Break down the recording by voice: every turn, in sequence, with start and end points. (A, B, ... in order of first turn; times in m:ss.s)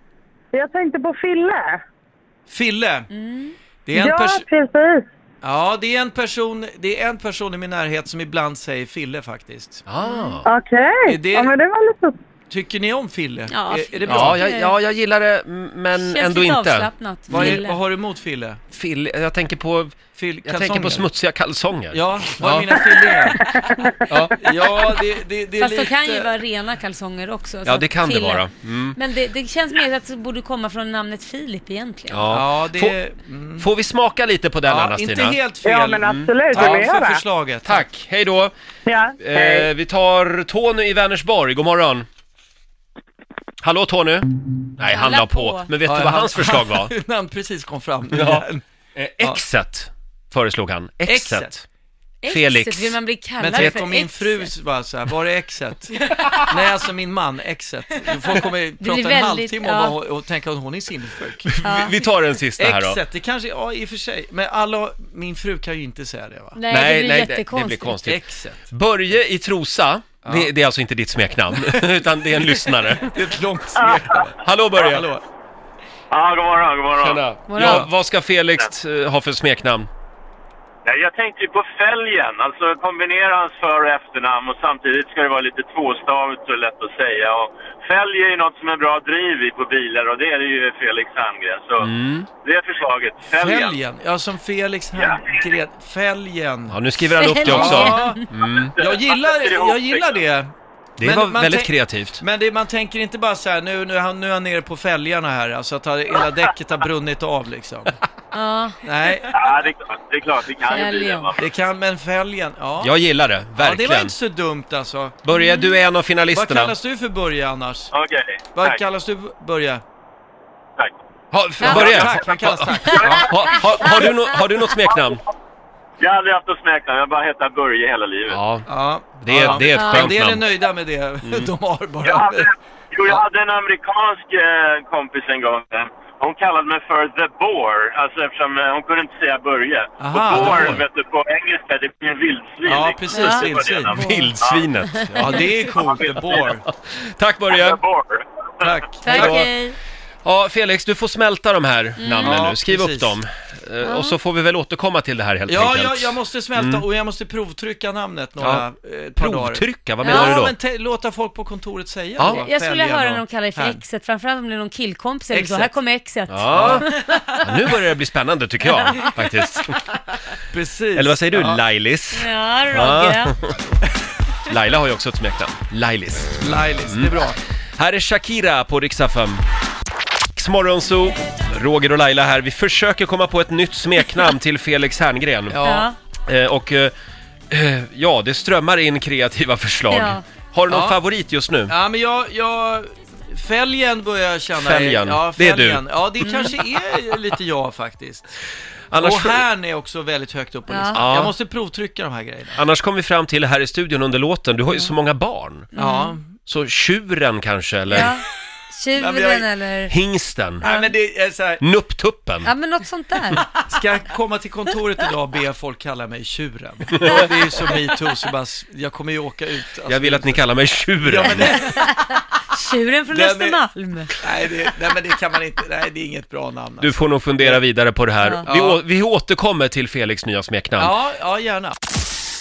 0:00.5-0:01.8 A
0:02.5-0:03.1 B
0:03.1-0:03.6 C
0:03.9-0:04.5 B
0:04.0-0:05.0 A
0:05.4-0:09.8 B
0:09.9-0:10.5 D
0:10.0-0:10.4 C
0:10.4-0:12.1 A
0:11.1-0:11.5 B
0:12.5-0:14.4 B
0:13.5-0:14.8 C
0:14.1-0:17.6 D
0:15.9-0:17.8 C
0:17.3-0:18.6 B
0:18.7-0:22.7 D
0:20.1-0:21.1 B
0:21.9-0:23.4 B
0:23.6-0:23.9 A
0:24.1-0:24.4 D
0:24.3-0:26.3 B
0:25.6-0:32.2 C
0:27.6-0:29.0 D
0:32.1-0:33.0 D
0:32.3-0:33.7 B
0:33.6-0:35.4 D
0:34.6-0:37.8 B
0:35.6-0:37.2 A
0:36.0-0:36.9 D
0:37.6-0:38.5 D
0:38.9-0:39.7 A
0:39.2-0:42.1 D
0:43.6-0:46.9 D
0:44.9-0:45.7 C
0:45.8-0:48.6 B
0:48.1-0:48.4 D
0:49.0-0:51.6 D
0:51.1-0:51.6 B
0:52.2-0:54.5 C
0:52.3-0:53.0 D
0:53.4-1:01.5 B
0:56.1-0:56.4 C
0:58.8-1:00.0 C
1:01.5-1:03.0 D
1:01.6-1:02.0 C
1:02.6-1:06.6 B
1:06.6-1:08.0 C
1:06.7-1:08.2 D
1:08.0-1:08.7 B
1:08.7-1:13.1 D
1:10.2-1:10.5 B
1:11.5-1:11.8 B
1:12.4-1:15.2 B
1:14.4-1:15.1 D
1:16.1-1:17.2 E
1:17.0-1:19.9 D
1:17.5-1:17.9 C
1:17.6-1:17.9 B
1:20.9-1:31.9 E
1:31.8-1:32.3 D
1:32.4-1:33.8 E
1:33.3-1:36.8 B
1:35.0-1:35.4 E
1:36.7-1:38.7 D
1:37.2-1:38.2 C
1:37.4-1:38.2 B
1:38.4-1:40.2 E
1:38.8-1:48.0 B
1:41.0-1:42.2 D
1:48.3-1:48.8 C
1:48.8-1:49.4 B
1:49.3-1:51.5 E
1:50.6-1:51.3 C
1:51.4-1:52.9 B
1:52.8-1:54.1 D
1:53.6-1:55.2 B
1:55.2-1:56.8 D
1:55.3-1:55.8 C
1:56.3-1:57.9 B
1:57.9-1:58.8 E
1:58.6-1:59.8 B
2:01.3-2:05.2 D
2:01.6-2:02.2 C
2:01.6-2:03.6 B
2:02.9-2:04.0 E
2:06.0-2:08.4 E
2:08.3-2:08.7 D
2:08.6-2:12.5 B
2:09.2-2:10.4 D
2:09.5-2:10.1 C
2:12.0-2:24.7 E
2:20.0-2:20.8 B
2:20.4-2:20.8 D
2:22.6-2:24.0 B
2:23.1-2:25.5 C
2:23.9-2:25.5 D
2:25.1-2:26.6 B
2:25.6-2:26.4 E
2:26.6-2:27.8 D
2:27.5-2:28.8 E
2:28.6-2:29.5 B
2:29.0-2:29.8 C
2:29.1-2:29.5 D
2:30.2-2:36.8 D
2:32.0-2:32.4 C
2:32.2-2:33.2 B
2:33.8-2:34.2 C
2:35.5-2:43.8 B
2:38.4-2:38.6 D
2:39.2-2:40.5 D
2:40.0-2:40.4 C
2:42.2-2:42.4 D
2:42.2-2:47.5 C
2:45.3-2:45.7 B
2:46.3-2:46.9 D
2:46.5-2:46.9 B
2:47.4-2:49.8 D
2:48.6-2:49.1 C
2:50.5-2:51.6 B
2:51.0-2:53.6 D
2:52.1-2:53.3 C
2:54.5-2:57.1 D
2:56.4-2:57.4 B
2:57.8-2:59.4 D
3:00.3-3:05.6 D
3:05.5-3:05.9 B
3:05.6-3:06.0 C
3:06.2-3:06.9 D
3:07.5-3:11.7 D
3:09.9-3:10.2 C
3:10.7-3:11.0 B
3:11.7-3:18.4 B
3:14.6-3:16.2 D
3:16.2-3:16.5 C
3:18.9-3:19.4 D
3:19.0-3:22.6 B
3:20.7-3:21.0 C
3:21.0-3:21.3 D
3:22.6-3:25.7 D
3:25.7-3:26.2 C
3:25.8-3:26.3 B
3:26.5-3:28.1 D
3:27.9-3:29.9 C
3:29.0-3:29.5 B
3:29.9-3:30.6 D
3:30.6-3:31.6 B
3:30.6-3:30.9 C
3:31.6-3:32.5 D
3:32.4-3:33.5 C
3:33.5-3:41.9 B
3:39.9-3:41.6 D
3:41.4-3:44.2 C
3:43.1-3:43.6 B
3:44.2-3:47.6 B
3:46.8-3:51.0 D
3:48.5-3:48.8 B
3:50.8-3:51.8 B